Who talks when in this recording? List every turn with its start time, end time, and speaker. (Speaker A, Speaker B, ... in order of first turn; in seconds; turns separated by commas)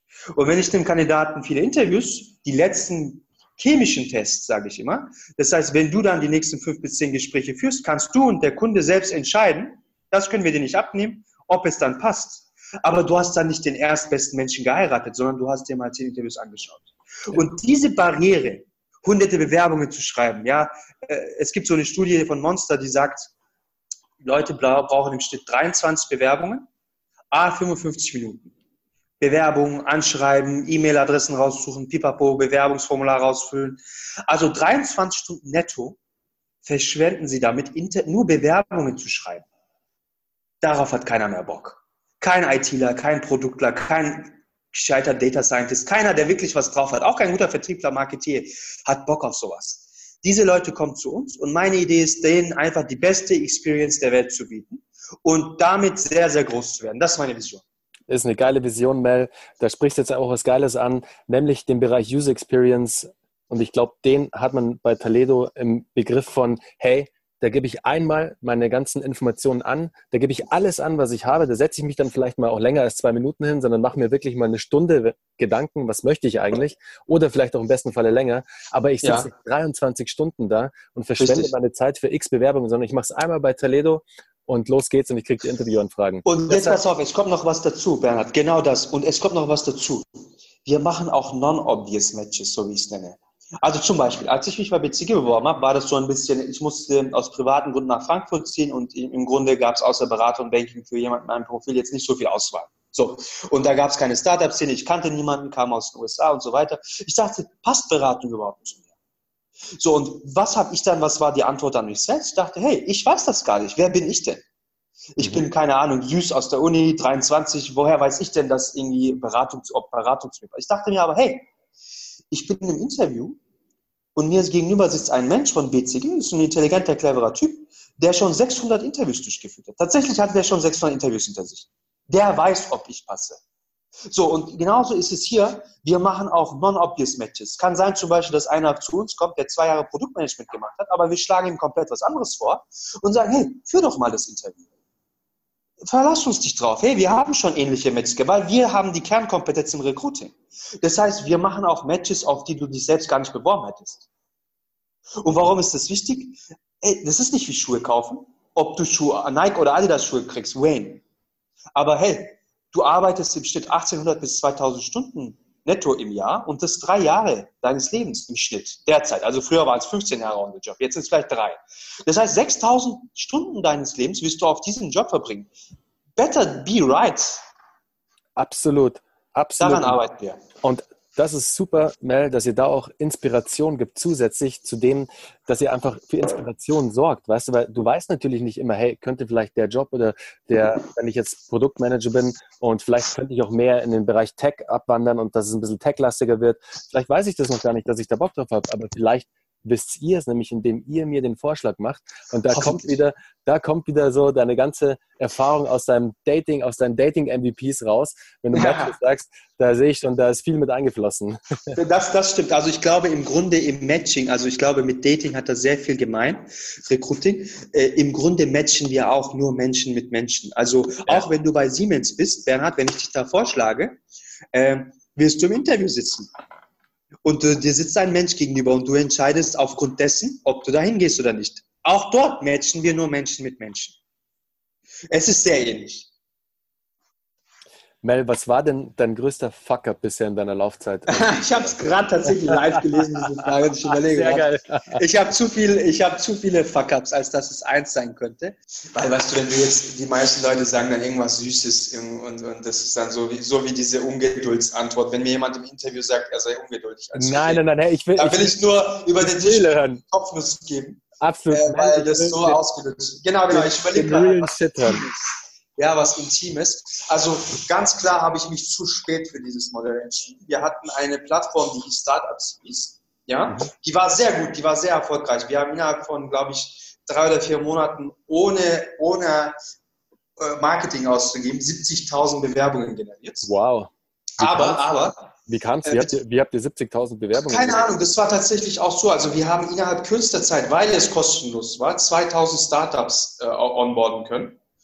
Speaker A: 0.3-23.3, Speaker A: 24.2-26.7, Speaker A: 27.3-28.5, Speaker A: 29.2-36.0, Speaker A: 36.6-39.5, Speaker A: 40.6-57.6, Speaker B: 58.1-86.8, Speaker A: 79.0-79.3, Speaker A: 81.2-81.5, Speaker A: 86.2-108.8, Speaker A: 109.8-114.4, Speaker A: 115.2-121.5, Speaker A: 122.3-123.4, Speaker A: 124.2-133.4, Speaker A: 134.1-144.6, Speaker A: 145.8-154.1, Speaker A: 155.2-161.0, Speaker A: 161.8-175.5, Speaker A: 176.2-177.4, Speaker B: 178.4-180.0, Speaker A: 179.6-180.4, Speaker B: 180.6-211.8, Speaker A: 202.5-203.0, Speaker A: 208.5-208.9, Speaker A: 211.8-224.0, Speaker A: 224.5-226.3, Speaker A: 227.2-234.0, Speaker A: 235.1-236.1, Speaker B: 238.0-241.8, Speaker A: 241.1-244.4, Speaker B: 242.4-242.8, Speaker B: 244.0-245.0, Speaker A: 244.9-257.6, Speaker B: 257.2-258.6, Speaker A: 258.2-279.5, Speaker B: 259.2-260.0, Speaker B: 261.2-262.6, Speaker B: 263.5-265.1, Speaker A: 280.4-283.5, Speaker B: 283.4-284.9, Speaker A: 284.4-285.3, Speaker B: 285.5-287.9, Speaker A: 285.9-286.1, Speaker A: 287.4-294.6